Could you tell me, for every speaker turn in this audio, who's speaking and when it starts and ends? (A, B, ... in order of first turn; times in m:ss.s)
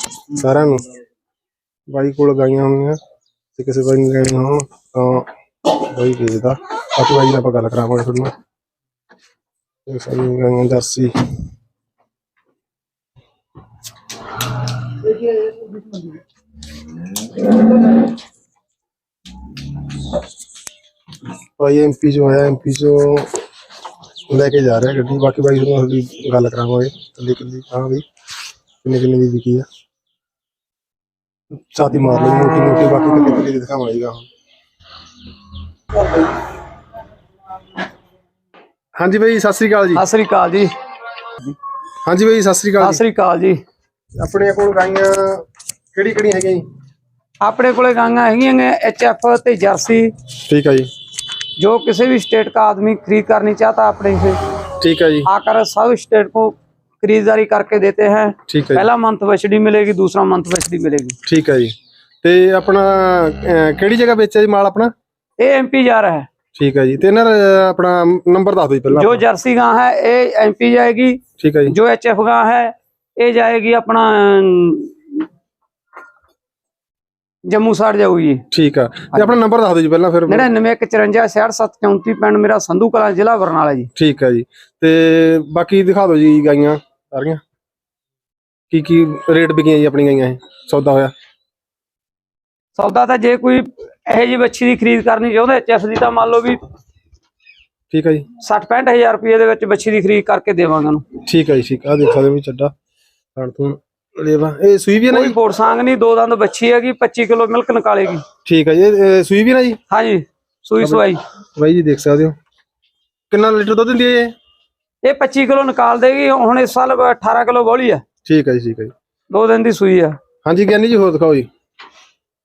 0:00.3-0:00.8 A
0:01.9-0:03.0 A
0:03.6-0:08.3 A
0:09.9-0:11.1 A
0:21.6-0:23.3 A
0:24.3-0:28.0 A
0:28.8-0:29.6 A
0:31.7-0:34.3 A
0:39.0-0:40.0 A
0:40.0-0:40.7 B
0:42.0-0:43.0 A
0:42.8-0:43.6 B
0:44.2-0:45.4 A
0:45.9-0:46.6 A
0:47.4-0:50.1 B
0:50.4-0:50.9 A
0:51.6-0:54.4 B
0:54.8-0:55.3 A
0:55.3-1:01.2 B
0:58.5-0:58.9 A
1:01.2-1:04.9 A
1:05.4-1:06.3 B
1:06.6-1:09.2 A
1:08.9-1:15.2 B
1:11.4-1:11.8 A
1:17.5-1:18.4 B
1:18.5-1:20.5 A
1:20.3-1:23.9 B
1:24.0-1:27.4 A
1:28.7-1:31.1 A
1:32.8-1:36.6 B
1:37.9-1:38.3 A
1:38.4-1:41.0 B
1:41.2-1:42.7 A
1:43.4-1:45.4 A
1:45.1-1:48.2 B
1:48.4-1:49.8 A
1:49.9-1:51.2 B
1:51.6-1:52.3 A
1:53.3-1:54.3 A
1:55.0-1:58.0 B
1:58.2-1:58.9 A
1:59.3-2:00.2 B
2:00.4-2:01.5 A